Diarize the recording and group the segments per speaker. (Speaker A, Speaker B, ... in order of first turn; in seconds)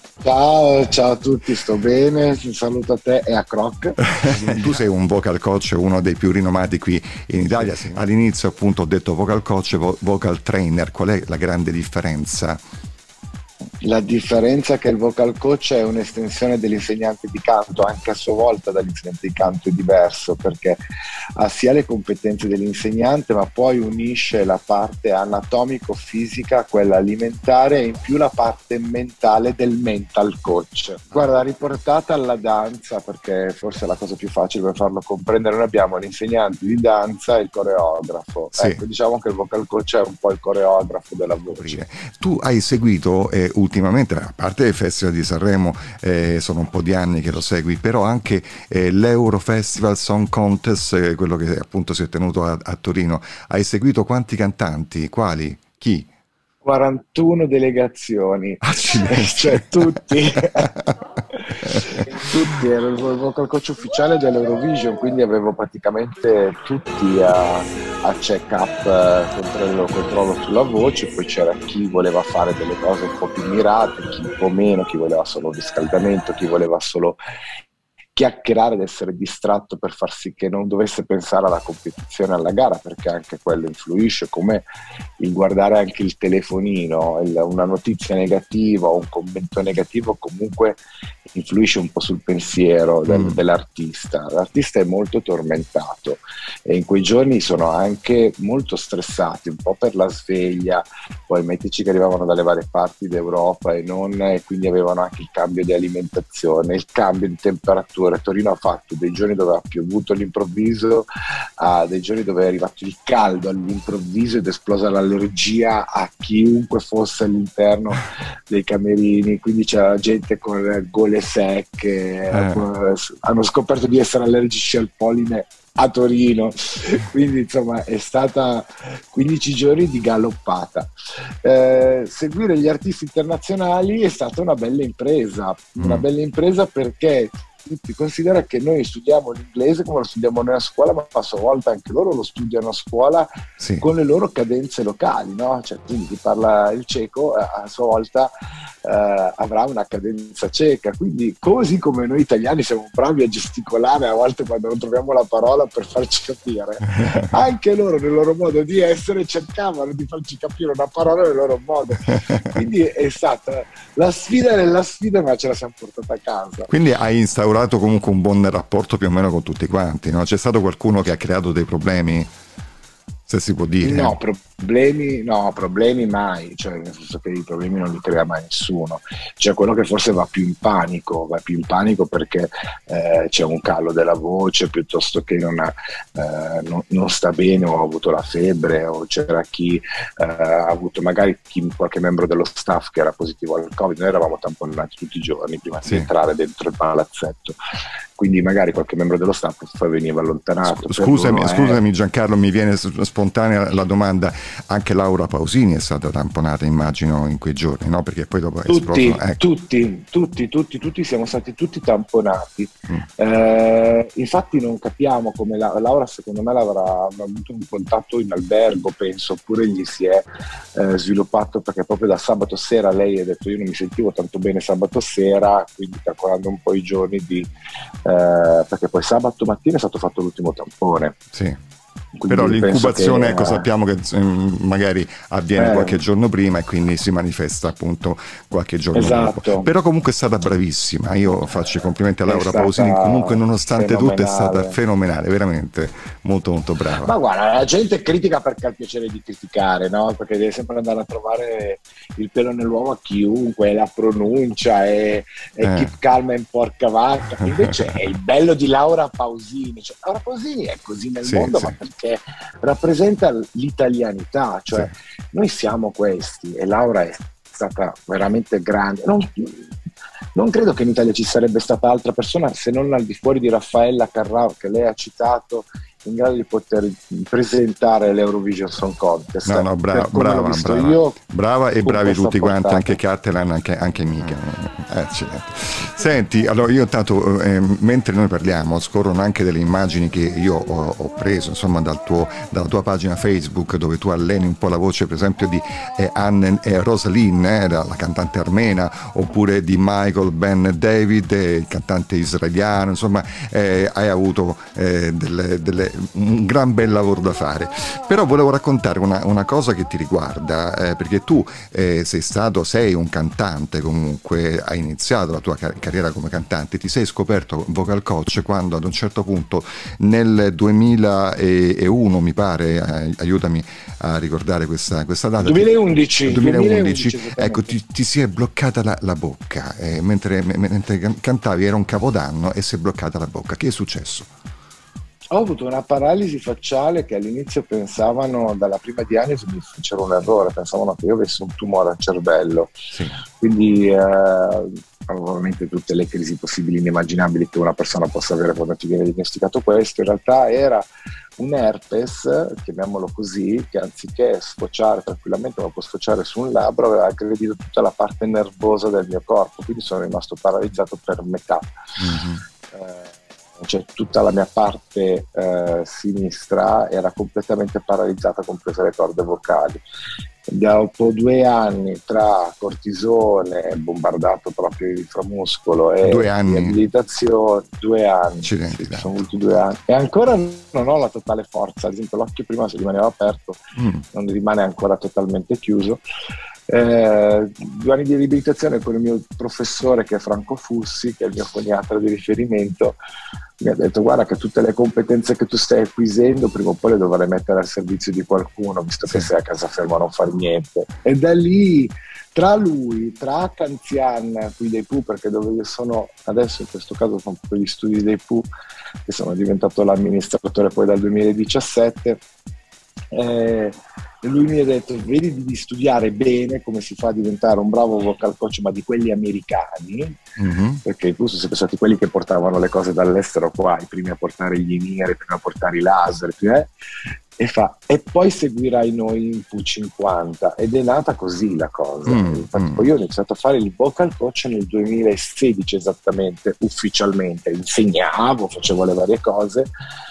Speaker A: 0.2-4.6, 13.8-20.8, 21.4-41.8, 56.6-60.7, 61.3-77.2, 78.2-84.7, 85.2-90.8, 91.3-130.9, 131.4-143.3, 143.8-148.3, 148.8-166.7, 173.8-197.6, 198.2-201.8, 208.7-227.5, 228.1-231.2, 232.2-233.7, 235.6-236.0, 238.9-239.7, 241.3-241.6, 242.3-244.8, 247.0-269.8, 270.4-281.2, 281.8-283.0, 325.4-327.8, 335.3-342.8, 343.4-350.9, 351.4-361.7, 362.7-369.8, 370.5-386.0, 386.7-393.0, 393.6-408.5, 409.1-412.2, 413.1-420.2, 420.8-426.7, 427.4-439.7
Speaker B: 4.2-12.6, 38.5-38.8, 41.5-56.1, 58.6-59.7, 61.6-61.9, 93.1-93.4, 122.3-122.7, 135.8-136.1, 143.6-143.9, 166.7-172.3, 173.3-174.2, 195.8-196.1, 200.6-209.4, 231.3-231.6, 232.3-247.1, 255.6-255.9, 261.2-261.8, 279.5-334.3, 342.9-343.2, 362.0-362.4, 376.0-376.8, 378.4-379.1, 383.8-384.0, 420.4-420.8, 432.1-432.9